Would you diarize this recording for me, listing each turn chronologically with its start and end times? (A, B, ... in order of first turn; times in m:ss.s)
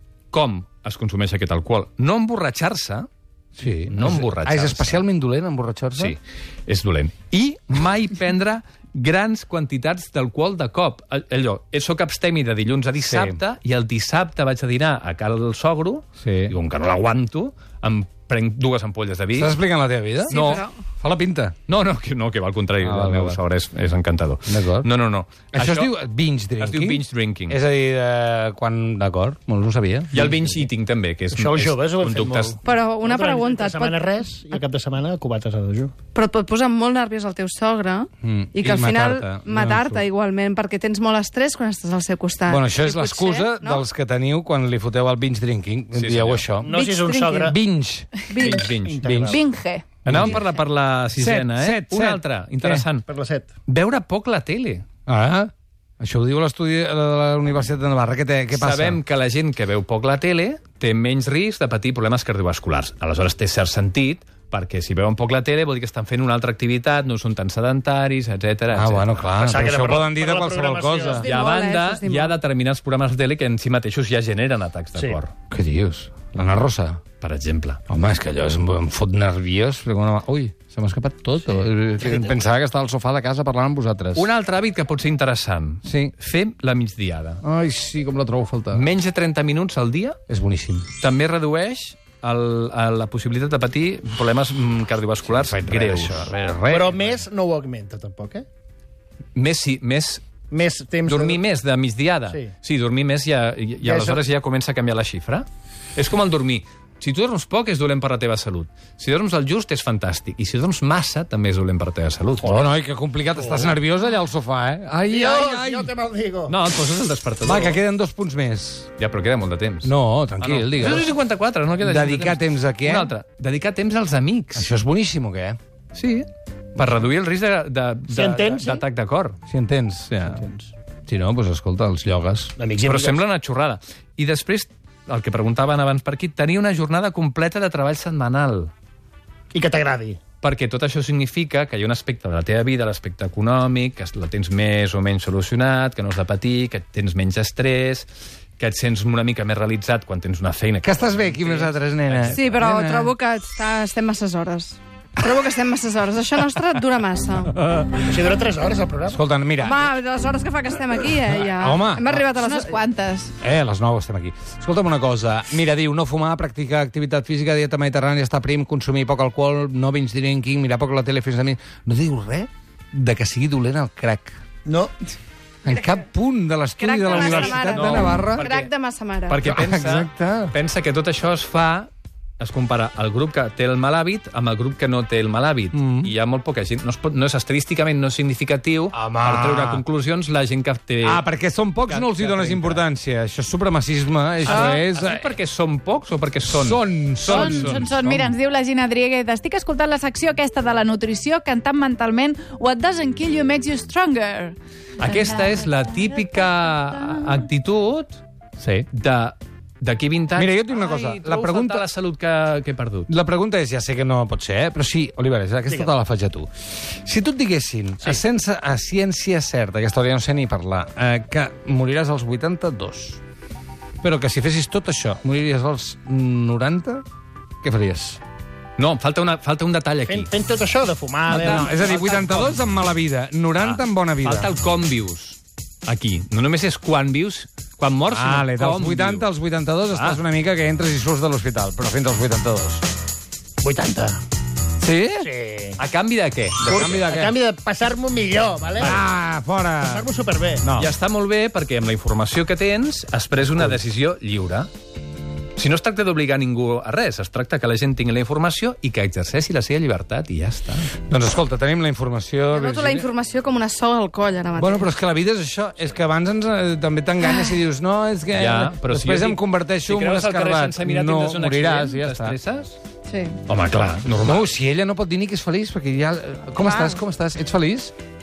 0:00.3-0:03.1 A
0:03.6-0:06.2 B
0:03.9-0:05.0 A
0:06.0-0:19.5 A
0:13.0-0:13.4 B
0:16.2-0:16.5 B
0:19.3-0:20.5 B
0:20.3-0:20.6 A
0:20.3-0:20.7 C
0:21.0-0:21.5 B
0:21.7-0:25.9 A
0:22.8-0:23.4 B
0:24.5-0:24.9 B
0:25.5-0:30.6 B
0:26.6-0:27.6 A
0:30.1-0:32.6 A
0:31.3-0:35.9 D
0:32.6-0:34.0 C
0:36.1-0:43.8 C
0:38.2-0:40.0 B
0:42.5-0:46.7 B
0:45.9-0:46.5 A
0:46.6-0:47.6 D
0:46.7-0:47.5 E
0:47.4-0:48.2 B
0:48.3-0:48.7 C
0:48.4-0:49.4 D
0:48.4-0:49.1 A
0:49.0-0:49.4 B
0:49.2-0:50.0 E
0:50.0-0:50.4 B
0:50.0-0:53.0 A
0:50.3-0:50.6 C
0:51.2-0:52.8 B
0:53.1-0:53.5 D
0:53.7-0:54.8 A
0:55.1-0:59.0 B
0:58.5-1:09.3 A
1:08.7-1:11.2 B
1:09.4-1:11.3 D
1:11.0-1:12.4 C
1:11.2-1:15.3 A
1:15.5-1:17.0 B
1:17.2-1:17.8 A
1:17.9-1:24.3 B
1:24.1-1:27.4 A
1:25.8-1:26.1 B
1:27.4-1:28.8 B
1:28.7-1:30.2 A
1:30.3-1:30.9 B
1:31.0-1:36.3 A
1:35.3-1:37.2 B
1:36.7-1:38.4 D
1:39.3-1:40.2 A
1:40.5-1:41.4 D
1:41.0-1:52.5 A
1:43.8-1:44.2 D
1:52.4-1:55.9 B
1:53.3-1:53.8 D
1:55.0-1:56.6 D
1:56.5-1:57.8 A
1:57.4-1:58.9 B
1:59.0-2:04.7 A
1:59.8-2:01.1 B
2:01.8-2:03.1 B
2:04.5-2:05.6 B
2:05.9-2:09.4 A
2:08.1-2:08.8 D
2:09.5-2:10.4 B
2:10.2-2:10.7 D
2:11.1-2:12.5 B
2:12.6-2:13.2 D
2:12.8-2:18.7 A
2:19.5-2:20.2 D
2:20.4-2:32.4 A
2:30.8-2:33.1 B
2:32.3-2:37.5 C
2:37.6-2:38.0 B
2:38.0-2:39.2 D
2:39.1-2:39.9 B
2:39.6-2:42.8 C
2:41.4-2:42.2 B
2:42.3-2:43.3 E
2:43.4-2:54.4 B
2:54.6-2:54.9 D
2:55.6-2:58.4 B
2:56.8-2:57.1 E
2:56.9-2:59.4 C
2:57.1-2:58.7 A
2:59.3-3:11.2 A
2:59.4-3:00.5 B
3:05.7-3:06.1 B
3:08.9-3:09.8 B
3:11.0-3:15.2 B
3:11.8-3:12.8 A
3:14.4-3:18.3 A
3:14.5-3:14.8 E
3:16.5-3:17.9 B
3:17.2-3:27.3 E
3:25.0-3:28.2 A
3:28.6-3:28.9 B
3:28.9-3:33.1 A
3:30.3-3:31.8 B
3:33.1-3:43.2 B
3:44.0-3:47.0 B
3:47.6-3:48.2 B
3:48.8-3:50.3 A
3:50.1-3:52.1 D
3:51.3-3:52.6 A
3:51.3-3:54.5 B
3:53.6-3:59.3 A
3:58.1-4:02.8 B
3:59.9-4:00.2 A
4:03.6-4:04.2 D
4:04.8-4:05.3 B
4:05.2-4:05.8 D
4:05.8-4:07.1 A
4:06.7-4:09.0 D
4:06.7-4:07.3 B
4:08.8-4:10.1 B
4:09.8-4:10.7 D
4:10.6-4:10.9 B
4:10.7-4:14.7 A
4:15.6-4:20.9 A
4:21.0-4:23.0 B
4:22.5-4:24.9 C
4:24.6-4:32.4 B
4:28.3-4:32.8 A
4:33.1-4:33.4 C
4:33.5-4:34.5 A
4:34.2-4:37.9 B
4:36.6-4:37.0 C